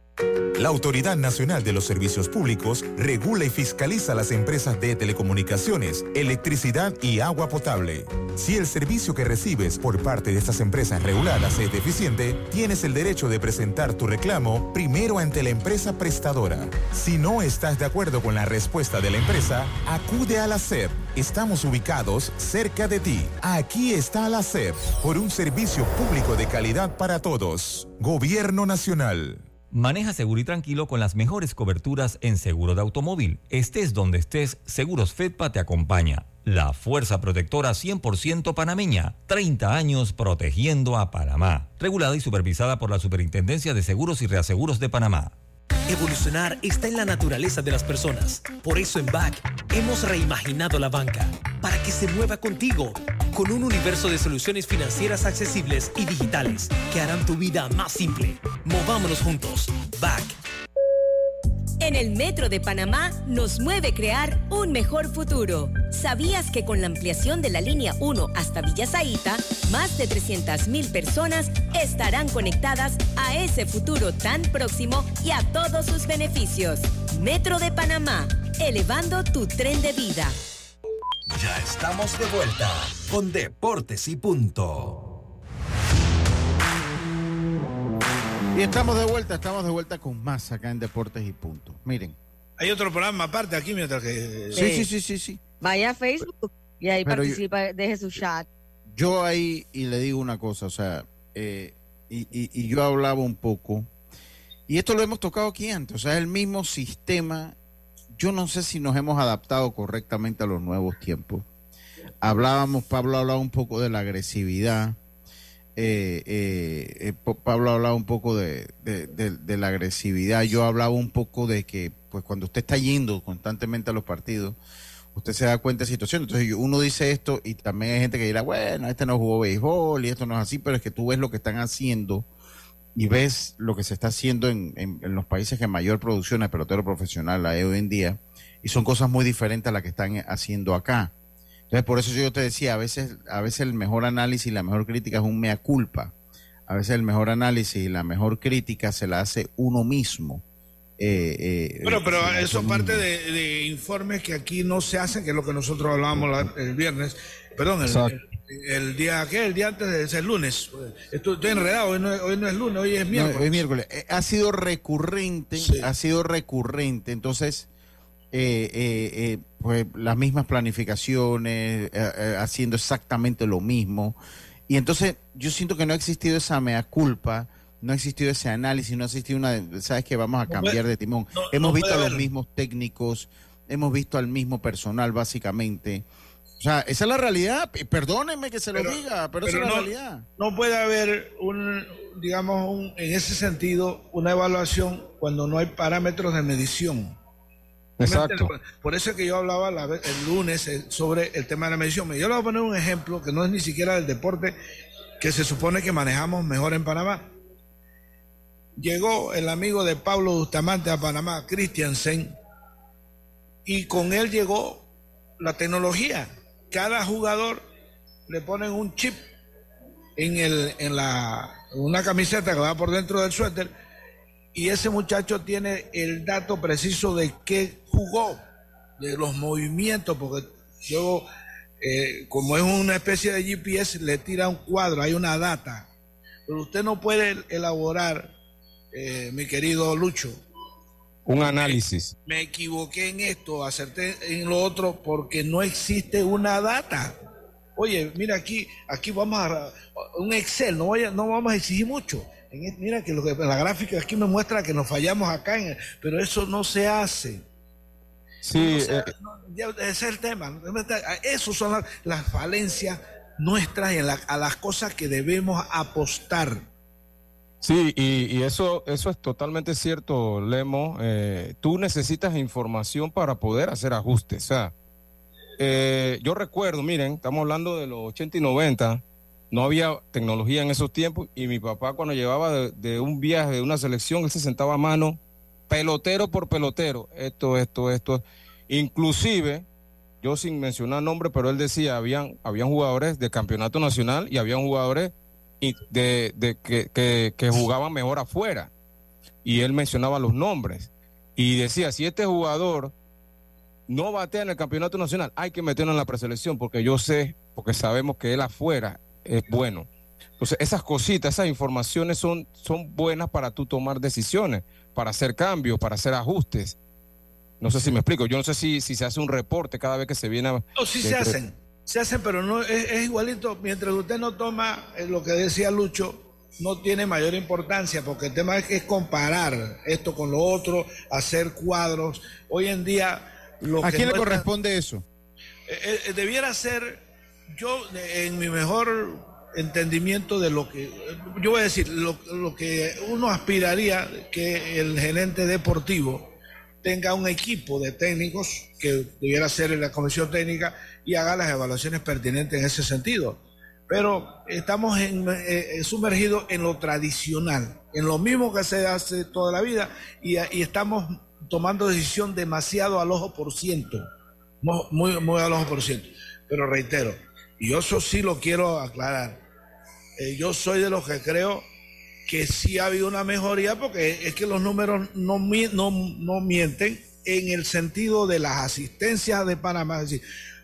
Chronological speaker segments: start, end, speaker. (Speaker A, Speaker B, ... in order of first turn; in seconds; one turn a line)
Speaker A: 0.5-29.4
Speaker B: 29.7-45.3
Speaker C: 45.9-60.4
Speaker D: 61.8-80.3
Speaker E: 81.3-85.0
Speaker F: 88.5-92.2
Speaker G: 92.6-94.7
Speaker F: 94.5-95.4
Speaker H: 94.5-94.8
Speaker H: 95.6-98.5
Speaker F: 97.0-97.4
Speaker F: 98.9-103.9
Speaker F: 104.7-107.5
Speaker F: 108.1-111.4
Speaker F: 112.2-115.0
Speaker F: 115.8-124.6
Speaker F: 125.1-132.3
Speaker F: 132.9-141.1
Speaker F: 141.7-146.1
Speaker F: 146.7-150.4
Speaker F: 151.0-153.0
Speaker G: 151.8-163.6
Speaker I: 157.8-158.2
Speaker F: 163.1-167.7
Speaker G: 165.6-165.9
Speaker F: 168.3-186.1
Speaker G: 180.5-180.8
Speaker G: 181.3-182.2
Speaker F: 186.6-190.2
Speaker G: 188.7-197.2
Speaker I: 198.0-198.5
Speaker G: 198.0-204.6
Speaker G: 205.2-207.3
Speaker G: 208.8-212.3
Speaker G: 213.7-214.9
Speaker G: 215.4-217.6
Speaker G: 218.3-219.3
Speaker G: 220.2-223.7
Speaker G: 224.5-228.4
Speaker G: 229.0-231.3
Speaker G: 231.8-235.9
Speaker G: 236.5-238.3
Speaker G: 238.9-240.4
Speaker I: 241.2-242.1
Speaker G: 241.4-247.2
Speaker G: 247.8-257.4
Speaker I: 258.4-259.1
Speaker G: 258.5-266.7
Speaker I: 267.6-274.7
Speaker I: 275.6-289.6
Speaker I: 290.2-298.7
Speaker I: 299.4-302.9
Speaker I: 303.9-309.9
Speaker I: 310.4-316.8
Speaker I: 317.6-320.6
Speaker G: 320.8-334.4
Speaker F: 321.0-321.3
Speaker F: 333.8-335.0
Speaker G: 335.7-337.0
Speaker G: 337.5-346.3
Speaker G: 346.8-364.0
Speaker G: 364.6-369.4
Speaker G: 370.2-371.6
Speaker G: 372.3-380.2